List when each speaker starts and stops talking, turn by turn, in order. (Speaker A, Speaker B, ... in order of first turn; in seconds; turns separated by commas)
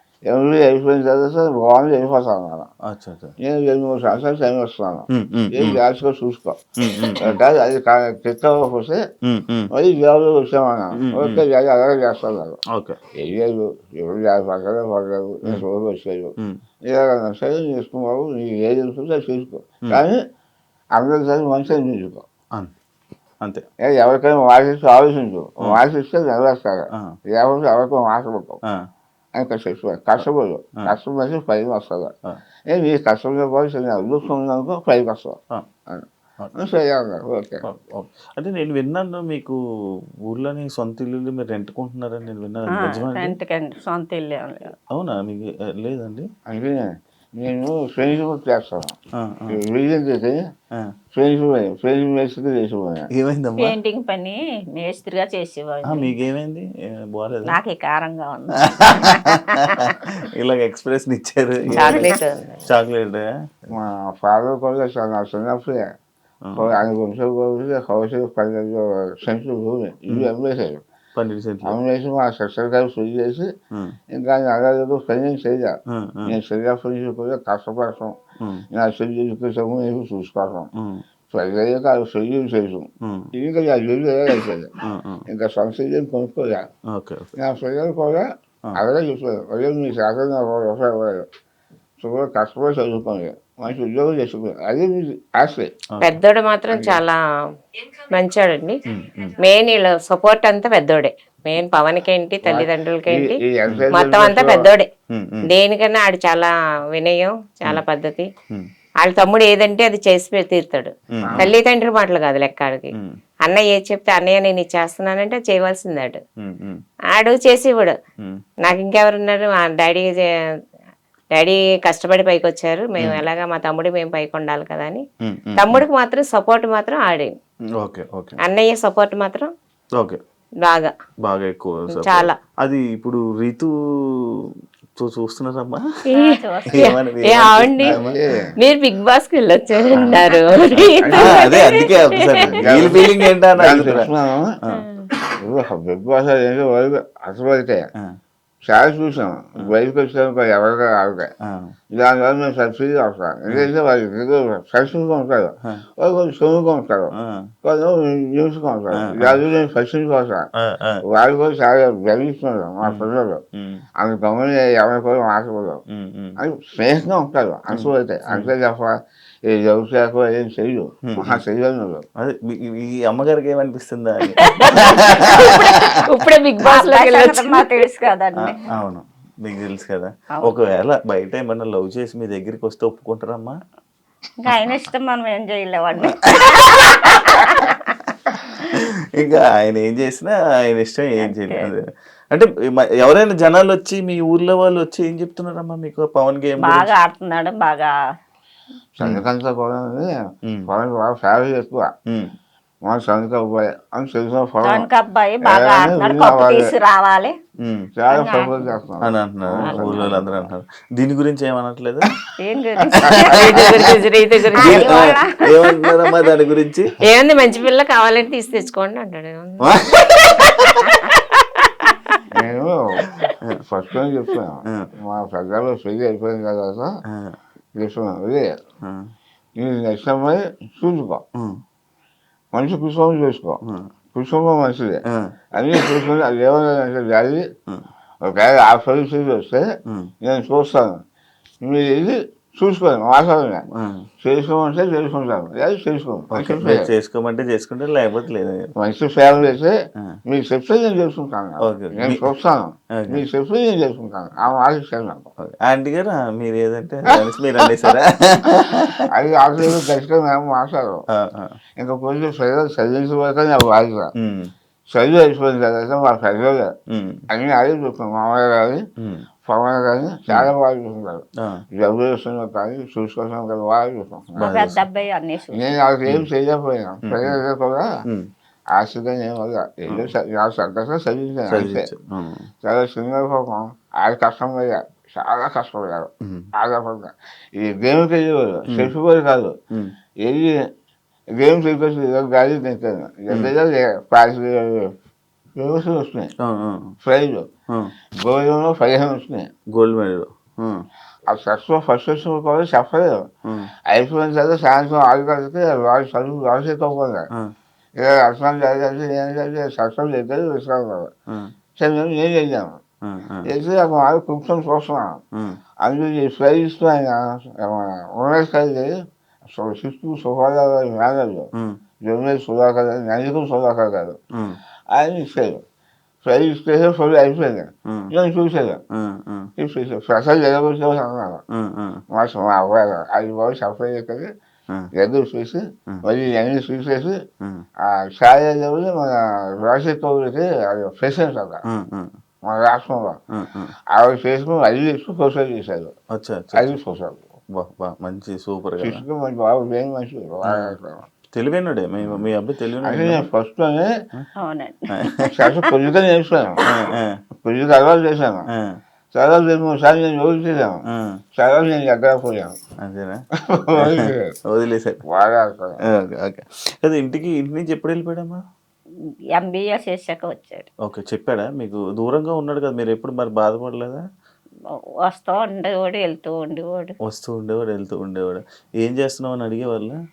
Speaker A: 0.3-2.7, Speaker B: 2.9-3.3, Speaker A: 3.4-6.6, Speaker B: 5.1-5.8, Speaker B: 6.8-7.4, Speaker A: 7.2-9.0, Speaker B: 9.2-9.7, Speaker A: 9.7-12.6, Speaker B: 10.9-11.4, Speaker B: 12.7-13.0, Speaker A: 13.2-16.3, Speaker A: 16.9-20.2, Speaker A: 20.9-22.2, Speaker A: 23.8-28.6, Speaker A: 29.4-32.1, Speaker A: 32.7-35.4, Speaker A: 36.6-37.6, Speaker B: 37.6-39.6, Speaker B: 40.3-43.4, Speaker C: 42.7-44.7, Speaker B: 44.9-46.3, Speaker A: 46.5-48.9, Speaker B: 49.2-49.6, Speaker A: 49.5-50.4, Speaker A: 51.1-53.1, Speaker B: 53.1-53.8, Speaker C: 53.6-56.1, Speaker B: 55.8-57.6, Speaker C: 57.5-59.4, Speaker B: 58.8-62.1, Speaker D: 61.7-62.6, Speaker B: 62.6-63.7, Speaker A: 63.7-65.8, Speaker B: 66.4-66.8, Speaker A: 66.5-70.8, Speaker B: 71.1-71.8, Speaker A: 71.7-73.5, Speaker A: 74.1-78.2, Speaker B: 75.9-76.3, Speaker B: 78.4-78.7, Speaker A: 78.7-80.7, Speaker B: 80.8-81.0, Speaker A: 81.3-82.9, Speaker B: 83.0-83.3, Speaker A: 83.4-84.7, Speaker B: 84.8-85.2, Speaker A: 85.3-86.7, Speaker B: 86.9-87.3, Speaker A: 87.4-91.2, Speaker A: 92.0-95.7, Speaker D: 96.0-97.2, Speaker A: 96.7-97.0, Speaker D: 98.1-98.8, Speaker B: 98.9-99.4, Speaker D: 99.4-103.4, Speaker A: 102.5-104.6, Speaker D: 103.9-104.9, Speaker B: 105.1-105.5, Speaker D: 105.5-108.3, Speaker D: 109.0-112.9, Speaker B: 111.1-111.5, Speaker A: 111.2-111.5, Speaker B: 112.9-113.2, Speaker D: 113.4-116.2, Speaker B: 116.4-116.8, Speaker D: 117.1-118.0, Speaker D: 118.6-120.2, Speaker D: 121.3-125.0, Speaker B: 123.0-123.2, Speaker B: 125.2-125.8, Speaker D: 125.6-127.3, Speaker B: 127.8-128.4, Speaker D: 128.4-129.5, Speaker D: 130.6-130.9, Speaker B: 131.2-135.8, Speaker D: 131.9-132.3, Speaker C: 136.1-136.9, Speaker D: 136.1-137.9, Speaker B: 136.7-138.2, Speaker A: 137.8-138.5, Speaker D: 138.6-142.4, Speaker A: 140.7-141.5, Speaker B: 141.2-144.1, Speaker A: 142.3-144.5, Speaker D: 144.7-145.1, Speaker A: 145.4-147.8, Speaker A: 148.7-151.3, Speaker B: 151.4-151.8, Speaker A: 151.9-157.1, Speaker B: 157.1-157.5, Speaker A: 157.6-160.4, Speaker B: 159.0-159.4, Speaker B: 160.6-161.0, Speaker A: 161.1-163.4, Speaker B: 162.8-163.8, Speaker A: 164.0-165.8, Speaker B: 165.9-166.4, Speaker A: 166.4-168.9, Speaker B: 167.7-168.5, Speaker A: 169.4-172.0, Speaker B: 171.1-171.4, Speaker B: 172.2-175.3, Speaker D: 174.4-177.7, Speaker C: 176.6-178.6, Speaker B: 178.4-183.5, Speaker C: 184.4-187.8, Speaker B: 184.5-184.8, Speaker B: 189.2-196.9, Speaker C: 191.2-191.7, Speaker C: 196.6-197.9, Speaker A: 199.0-200.1, Speaker A: 200.7-201.9, Speaker A: 202.9-204.9, Speaker C: 204.6-207.3, Speaker A: 205.4-206.7, Speaker B: 207.6-207.9, Speaker A: 208.0-210.5, Speaker C: 208.1-208.6, Speaker B: 209.0-212.1, Speaker C: 212.4-213.3, Speaker B: 213.0-213.4, Speaker D: 213.3-215.0, Speaker B: 214.5-216.9, Speaker C: 214.6-215.9, Speaker D: 217.0-221.9, Speaker B: 219.6-220.8, Speaker A: 222.3-223.0, Speaker A: 223.6-226.9, Speaker B: 227.1-227.4, Speaker A: 227.8-228.5, Speaker B: 228.8-229.1, Speaker A: 229.6-231.2, Speaker B: 231.3-231.6, Speaker A: 232.5-233.6, Speaker B: 233.6-233.9, Speaker A: 234.1-235.0, Speaker B: 235.1-235.3, Speaker A: 235.6-237.5, Speaker A: 238.2-239.7, Speaker B: 239.9-240.1, Speaker A: 240.2-241.0, Speaker A: 241.6-243.6, Speaker B: 243.7-244.1, Speaker A: 244.2-246.9, Speaker B: 246.3-248.7, Speaker A: 248.8-249.7, Speaker A: 250.3-255.3, Speaker B: 251.6-252.3, Speaker B: 253.0-253.2, Speaker B: 255.4-259.1, Speaker A: 259.1-261.0, Speaker B: 261.1-261.6, Speaker A: 261.8-264.1, Speaker B: 264.2-264.5, Speaker A: 264.9-266.7, Speaker B: 266.9-267.2, Speaker A: 267.3-268.8, Speaker B: 269.0-269.3, Speaker A: 269.5-274.5, Speaker B: 274.4-274.8, Speaker C: 274.4-275.7, Speaker A: 275.5-277.9, Speaker B: 277.0-277.4, Speaker A: 278.7-281.9, Speaker B: 281.5-282.5, Speaker A: 282.6-286.1, Speaker B: 286.2-286.5, Speaker A: 286.6-289.5, Speaker B: 288.7-288.9, Speaker A: 290.2-290.6, Speaker A: 291.4-294.9, Speaker A: 295.6-296.3, Speaker B: 296.4-297.0, Speaker A: 297.0-297.5, Speaker B: 297.7-297.9, Speaker A: 298.2-299.5, Speaker B: 299.7-300.8, Speaker A: 301.3-303.3, Speaker B: 303.4-303.7, Speaker A: 303.9-307.2, Speaker A: 308.0-311.1, Speaker B: 311.3-311.6, Speaker A: 311.8-312.8, Speaker B: 313.0-313.5, Speaker A: 313.5-315.2, Speaker B: 315.3-315.6, Speaker A: 315.8-318.9, Speaker A: 319.5-321.5, Speaker B: 321.5-321.8, Speaker A: 322.0-324.2, Speaker B: 324.3-324.6, Speaker A: 324.9-325.6, Speaker A: 326.2-328.8, Speaker B: 327.9-328.1, Speaker B: 328.9-329.5, Speaker A: 329.6-331.4, Speaker B: 331.5-332.0, Speaker A: 332.1-334.3, Speaker A: 335.0-337.2, Speaker B: 337.4-337.6, Speaker A: 337.9-341.6, Speaker B: 341.7-342.1, Speaker A: 342.5-343.2, Speaker B: 343.3-343.7, Speaker A: 343.9-345.9, Speaker B: 346.1-346.7, Speaker A: 346.5-347.2, Speaker B: 347.6-349.0, Speaker A: 348.8-351.1, Speaker B: 350.4-350.7, Speaker B: 351.3-353.2, Speaker A: 352.0-352.3, Speaker A: 352.8-353.9, Speaker C: 354.4-355.3, Speaker B: 354.9-355.3, Speaker A: 355.3-356.6, Speaker B: 356.6-357.2, Speaker A: 357.4-358.4, Speaker B: 358.5-358.8, Speaker A: 359.1-360.8, Speaker B: 360.9-361.1, Speaker A: 361.4-362.5, Speaker B: 362.8-363.2, Speaker A: 363.5-364.2, Speaker B: 363.8-365.0, Speaker A: 365.1-365.8, Speaker B: 365.9-368.4, Speaker C: 369.3-370.7, Speaker B: 370.8-374.0, Speaker C: 375.0-376.9, Speaker B: 377.0-380.0